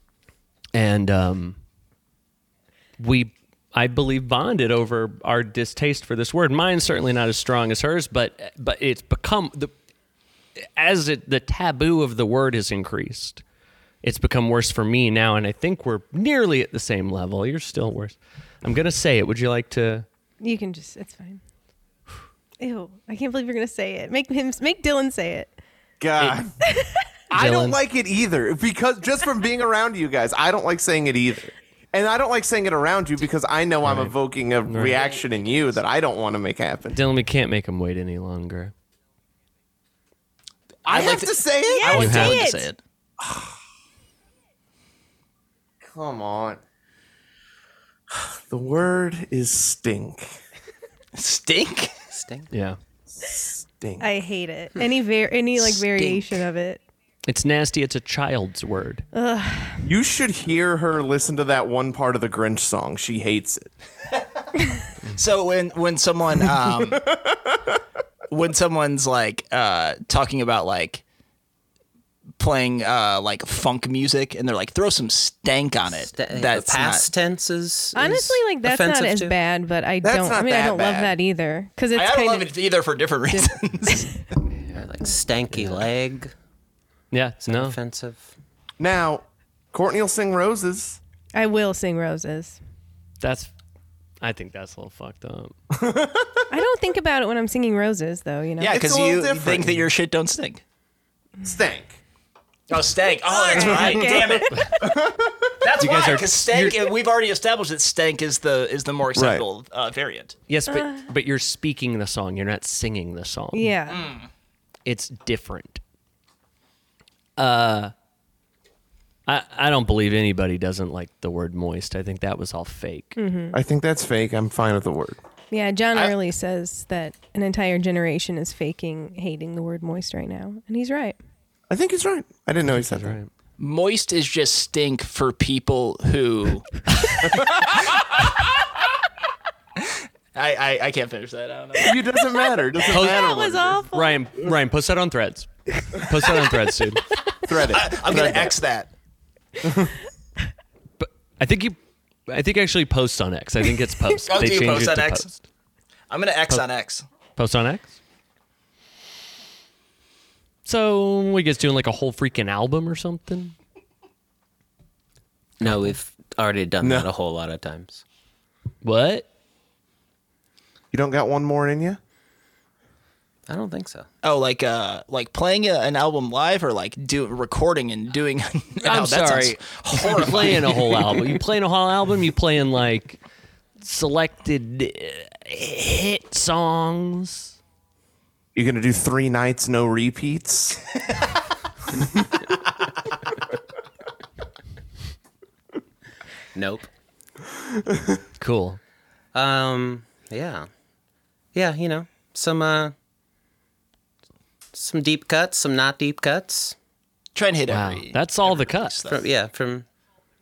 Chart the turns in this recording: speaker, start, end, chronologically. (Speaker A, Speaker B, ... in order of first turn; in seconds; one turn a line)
Speaker A: 0.7-1.6
Speaker A: 3.0-9.7
Speaker A: 10.8-13.4
Speaker A: 14.0-20.1
Speaker B: 20.4-21.4
Speaker B: 22.6-25.5
Speaker C: 26.0-26.6
Speaker B: 26.7-27.1
Speaker C: 27.3-37.0
Speaker A: 27.3-27.8
Speaker A: 33.8-34.1
Speaker A: 34.7-35.0
Speaker A: 36.9-38.7
Speaker D: 40.9-42.8
Speaker C: 40.9-42.1
Speaker B: 41.7-42.7
Speaker A: 41.9-42.4
Speaker C: 43.2-43.6
Speaker C: 45.8-46.6
Speaker C: 48.1-50.3
Speaker D: 51.1-51.9
Speaker E: 52.1-52.5
Speaker A: 52.5-52.8
Speaker C: 53.1-54.1
Speaker B: 54.0-56.8
Speaker E: 55.6-56.3
Speaker A: 57.3-59.0
Speaker B: 59.1-59.9
Speaker C: 59.8-63.7
Speaker D: 65.1-67.1
Speaker C: 66.9-67.8
Speaker D: 68.3-71.0
Speaker D: 72.4-77.1
Speaker E: 76.1-79.4
Speaker B: 78.0-82.5
Speaker C: 80.0-81.2
Speaker D: 81.9-84.1
Speaker B: 83.3-84.2
Speaker A: 84.5-84.8
Speaker E: 84.7-86.3
Speaker A: 85.5-85.9
Speaker A: 87.1-87.8
Speaker E: 87.4-88.3
Speaker C: 88.8-91.0
Speaker B: 91.3-92.6
Speaker A: 93.2-93.5
Speaker A: 94.2-95.5
Speaker C: 95.7-96.5
Speaker B: 96.5-98.8
Speaker D: 98.6-100.6
Speaker C: 98.7-99.9
Speaker C: 101.4-102.0
Speaker D: 102.7-104.5
Speaker B: 103.2-104.7
Speaker C: 103.6-105.6
Speaker D: 105.6-110.3
Speaker A: 105.8-106.9
Speaker C: 109.2-109.5
Speaker A: 110.5-113.8
Speaker B: 110.7-111.0
Speaker B: 113.5-114.1
Speaker D: 113.9-114.3
Speaker A: 114.8-115.8
Speaker A: 117.4-117.9
Speaker A: 119.3-123.2
Speaker B: 123.2-123.6
Speaker C: 123.5-125.2
Speaker B: 125.5-131.2
Speaker C: 131.7-133.2
Speaker A: 132.7-133.3
Speaker D: 133.6-138.2
Speaker D: 139.8-142.0
Speaker C: 141.8-143.8
Speaker B: 142.8-144.2
Speaker A: 142.9-143.3
Speaker A: 143.9-147.0
Speaker C: 147.4-148.6
Speaker D: 147.6-148.9
Speaker C: 149.6-150.0
Speaker A: 151.0-155.4
Speaker D: 154.3-155.3
Speaker D: 156.1-157.1
Speaker A: 157.4-158.0
Speaker A: 160.7-163.6
Speaker E: 165.6-168.0
Speaker C: 166.8-167.1
Speaker A: 168.8-169.3
Speaker C: 170.9-172.0
Speaker E: 173.5-174.1
Speaker D: 174.2-181.4
Speaker A: 178.8-183.2
Speaker A: 183.8-187.6
Speaker C: 188.6-190.8
Speaker E: 196.6-196.9
Speaker C: 197.6-198.2
Speaker A: 198.4-198.8
Speaker E: 199.3-200.7
Speaker E: 201.5-202.9
Speaker E: 204.7-206.8
Speaker D: 207.3-209.3
Speaker A: 207.7-209.0
Speaker E: 209.1-209.9